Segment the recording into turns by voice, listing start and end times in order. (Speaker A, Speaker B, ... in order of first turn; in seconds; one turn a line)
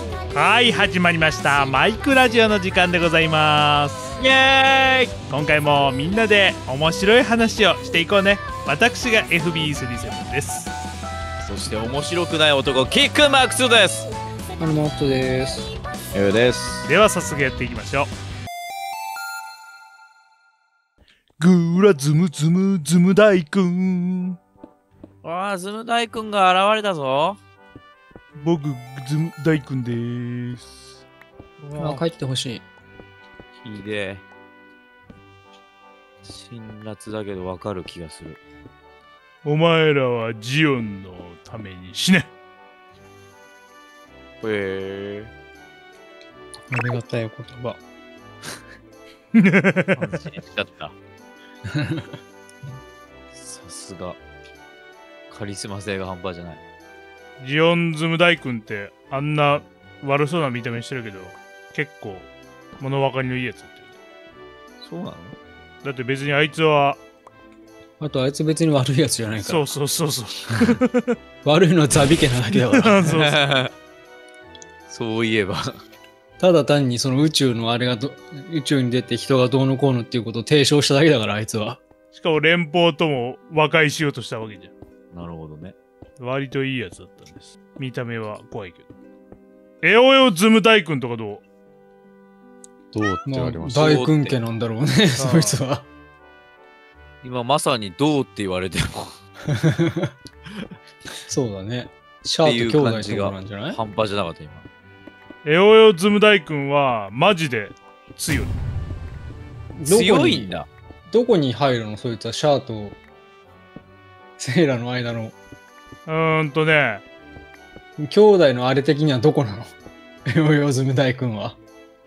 Speaker A: 0.3-4.1
Speaker B: 4.2-5.1
Speaker A: 5.3-10.7
Speaker B: 11.4-14.1
Speaker C: 14.6-15.7
Speaker D: 16.1-16.9
Speaker A: 16.8-18.1
Speaker A: 21.4-24.4
Speaker B: 25.2-27.4
Speaker A: 28.3-31.0
Speaker C: 31.8-32.6
Speaker B: 33.6-34.2
Speaker B: 36.2-38.4
Speaker A: 39.4-42.3
Speaker B: 44.4-45.3
Speaker C: 46.7-47.8
Speaker A: 49.3-50.0
Speaker B: 50.0-50.9
Speaker C: 51.7-52.1
Speaker B: 53.3-54.2
Speaker B: 55.3-56.6
Speaker A: 57.4-62.3
Speaker A: 62.8-63.9
Speaker B: 64.8-65.3
Speaker A: 65.8-67.0
Speaker C: 68.0-69.7
Speaker A: 69.4-71.2
Speaker C: 71.4-73.0
Speaker A: 72.5-73.4
Speaker B: 73.1-73.7
Speaker B: 74.9-75.7
Speaker C: 76.4-81.8
Speaker A: 82.1-84.7
Speaker B: 85.1-85.8
Speaker A: 86.2-88.9
Speaker A: 89.8-91.4
Speaker D: 92.9-94.1
Speaker C: 93.2-95.8
Speaker B: 93.8-94.4
Speaker A: 95.2-95.6
Speaker B: 97.2-99.2
Speaker C: 99.5-100.1
Speaker C: 101.3-103.8
Speaker B: 102.4-104.7
Speaker A: 105.4-108.6
Speaker C: 109.8-110.6
Speaker B: 109.8-110.7
Speaker C: 111.1-113.0
Speaker C: 114.4-115.3
Speaker A: 116.1-117.0
Speaker C: 118.0-119.7
Speaker C: 120.3-121.6